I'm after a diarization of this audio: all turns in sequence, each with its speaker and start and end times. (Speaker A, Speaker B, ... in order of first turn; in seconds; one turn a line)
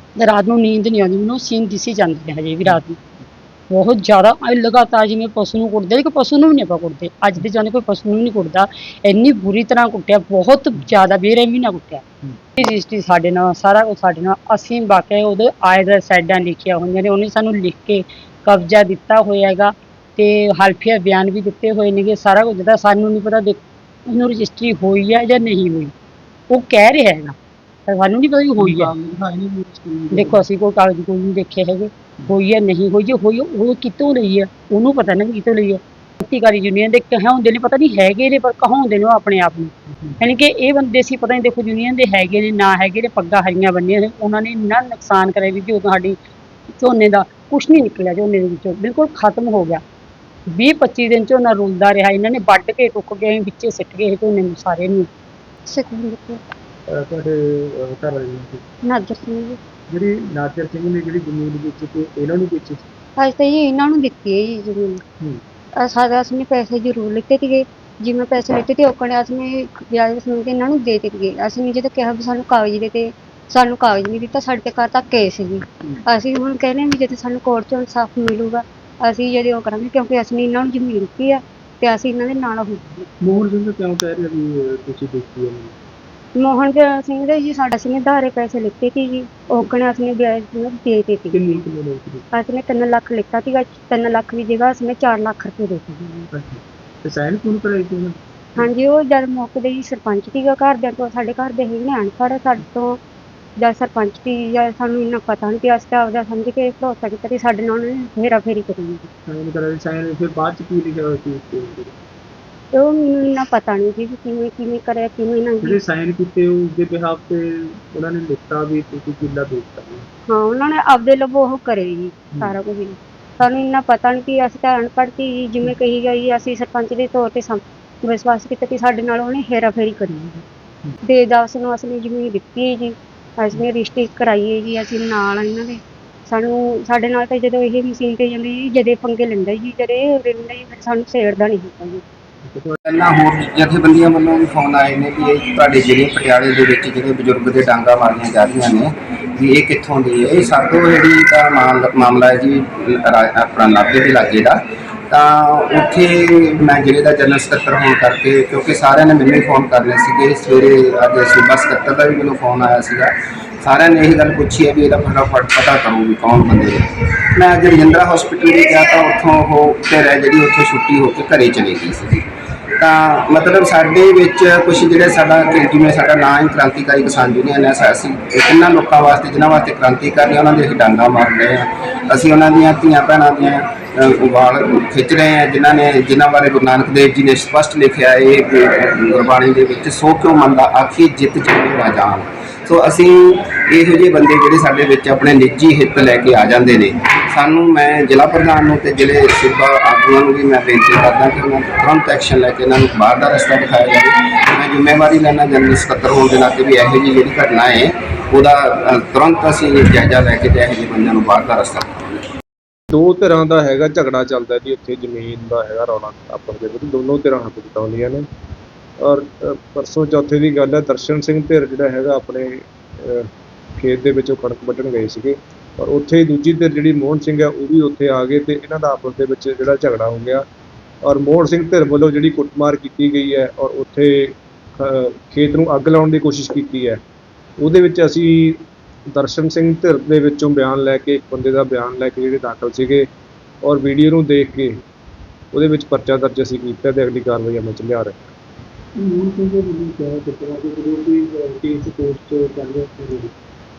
Speaker A: 0.2-3.0
Speaker A: 3.7-12.0
Speaker A: 12.6-25.9
Speaker A: 26.5-27.4
Speaker A: 27.9-28.9
Speaker B: 28.6-30.4
Speaker A: 30.1-46.2
Speaker A: 46.8-49.8
Speaker A: 50.5-55.1
Speaker C: 55.7-56.4
Speaker B: 56.9-58.6
Speaker C: 58.8-59.6
Speaker B: 59.9-62.8
Speaker C: 63.2-65.0
Speaker C: 65.8-83.1
Speaker B: 83.2-85.7
Speaker C: 86.4-91.4
Speaker B: 91.3-92.2
Speaker C: 92.3-96.3
Speaker B: 96.3-98.6
Speaker C: 98.6-103.0
Speaker C: 103.6-109.1
Speaker B: 109.3-111.9
Speaker C: 112.7-115.8
Speaker B: 115.6-120.1
Speaker C: 120.3-130.4
Speaker C: 131.0-142.0
Speaker D: 142.8-166.8
Speaker D: 167.3-172.2
Speaker D: 172.8-211.9
Speaker E: 212.9-218.2
Speaker E: 219.0-223.3
Speaker E: 223.8-230.4
Speaker E: 231.1-237.0
Speaker E: 237.6-243.1
Speaker E: 243.6-244.8
Speaker E: 245.5-248.3
Speaker B: 249.0-253.3